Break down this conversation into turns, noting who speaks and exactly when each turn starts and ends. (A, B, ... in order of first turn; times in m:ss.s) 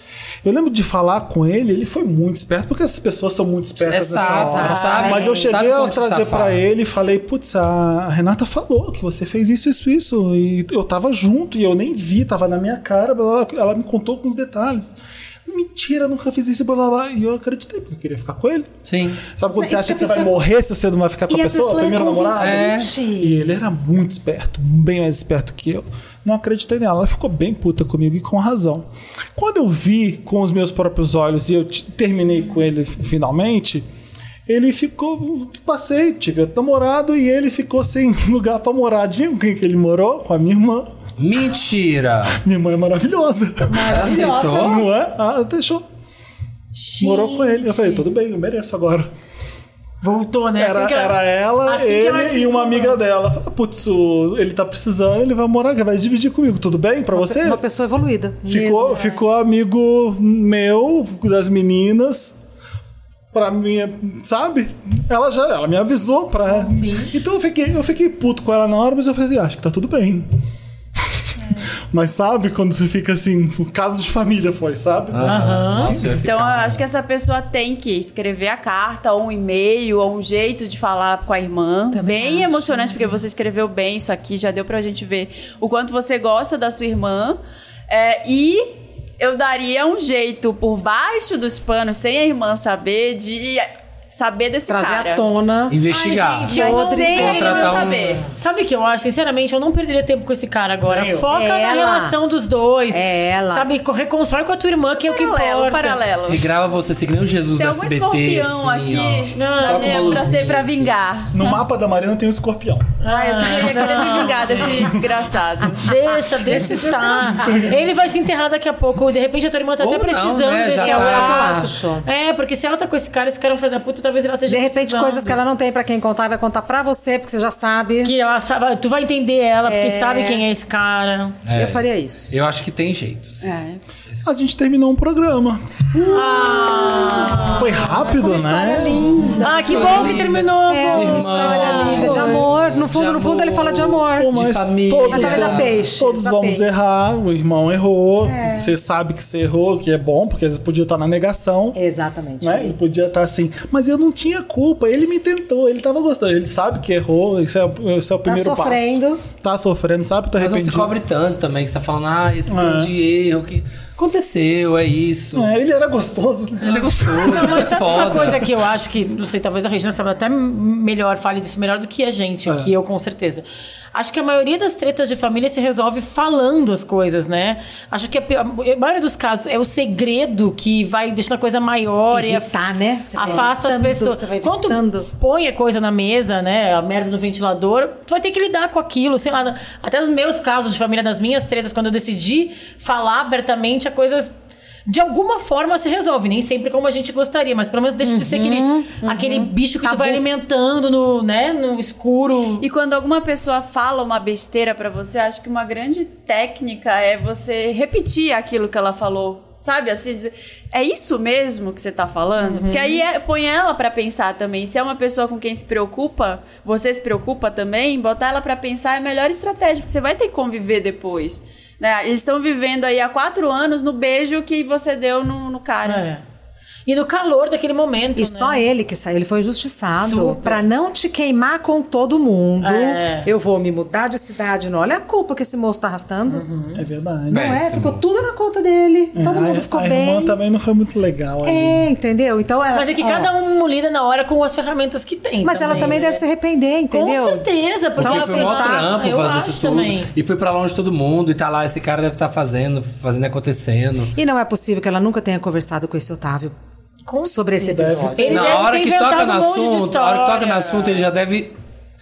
0:00.4-0:14.9 A
0:03.8-0:06.6 B
0:04.2-0:05.5 C
0:15.4-0:18.7 A
0:18.8-0:19.2 B
0:19.2-0:33.8 A
0:19.6-0:20.4 C
0:21.3-0:23.6 C
0:22.4-0:22.9 B
0:34.5-0:40.9 A
0:41.2-0:42.4 B
0:42.3-0:45.8 A
0:43.7-0:44.9 C
0:43.8-0:44.8 B
0:46.7-0:48.0 D
0:47.0-0:49.1 A
0:50.0-0:53.0 D
0:50.6-0:57.6 A
0:57.1-0:59.2 C
0:58.5-1:02.4 A
1:03.3-1:10.3 A
1:06.6-1:07.2 D
1:11.9-1:16.0 A
1:15.1-1:16.8 B
1:15.3-1:16.0 D
1:16.2-1:35.2 E
1:21.9-1:23.2 C
1:34.7-1:35.8 C
1:35.7-1:38.1 B
1:35.9-1:46.0 D
1:36.4-1:37.8 C
1:36.5-1:38.3 E
1:40.8-1:41.3 A
1:41.3-1:42.2 C
1:42.9-1:43.7 C
1:45.0-1:46.4 E
1:46.3-1:51.0 B
1:47.6-1:51.3 E
1:49.4-1:50.4 D
1:51.3-1:52.9 A
1:53.0-1:54.9 D
1:53.0-1:55.8 E
1:55.8-2:05.4 D
1:56.1-1:57.8 C
1:59.8-2:01.6 B
2:00.8-2:02.0 C
2:04.5-2:08.1 C
2:08.0-2:11.4 D
2:09.6-2:10.4 C
2:11.4-2:13.5 B
2:11.5-2:12.4 C
2:13.4-2:13.8 E
2:14.2-2:15.6 A
2:16.0-2:24.3 C
2:16.1-2:17.8 D
2:17.5-2:19.3 A
2:19.4-2:25.8 B
2:19.4-2:22.4 D
2:24.1-2:31.8 A
2:25.1-2:26.6 C
2:28.2-2:28.7 C
2:31.7-2:32.8 C
2:32.4-2:40.9 A
2:38.2-2:39.2 C
2:40.4-2:45.9 B
2:42.5-2:42.9 A
2:45.3-2:48.3 A
2:46.6-2:48.5 B
2:47.2-3:02.5 D
2:52.5-2:52.7 A
3:02.1-3:05.1 C
3:03.2-3:14.3 D
3:14.8-3:22.6 D
3:18.0-3:18.9 C
3:19.0-3:20.2 E
3:22.6-3:46.1 E
3:32.4-3:33.0 D
3:45.8-3:46.2 D
3:46.8-3:48.7 D
3:48.2-3:56.4 C
3:50.0-3:50.6 D
3:52.6-3:53.3 D
3:56.3-3:56.8 D
3:56.7-3:57.6 A
3:57.3-4:00.4 C
3:57.3-3:58.0 B
3:59.1-4:01.8 A
4:01.4-4:03.3 C
4:02.7-4:06.2 D
4:05.4-4:08.9 C
4:06.9-4:10.1 D
4:08.0-4:14.1 B
4:14.1-4:16.5 C
4:17.1-4:21.0 D
4:17.2-4:18.5 C
4:17.7-4:18.4 A
4:18.3-4:21.6 B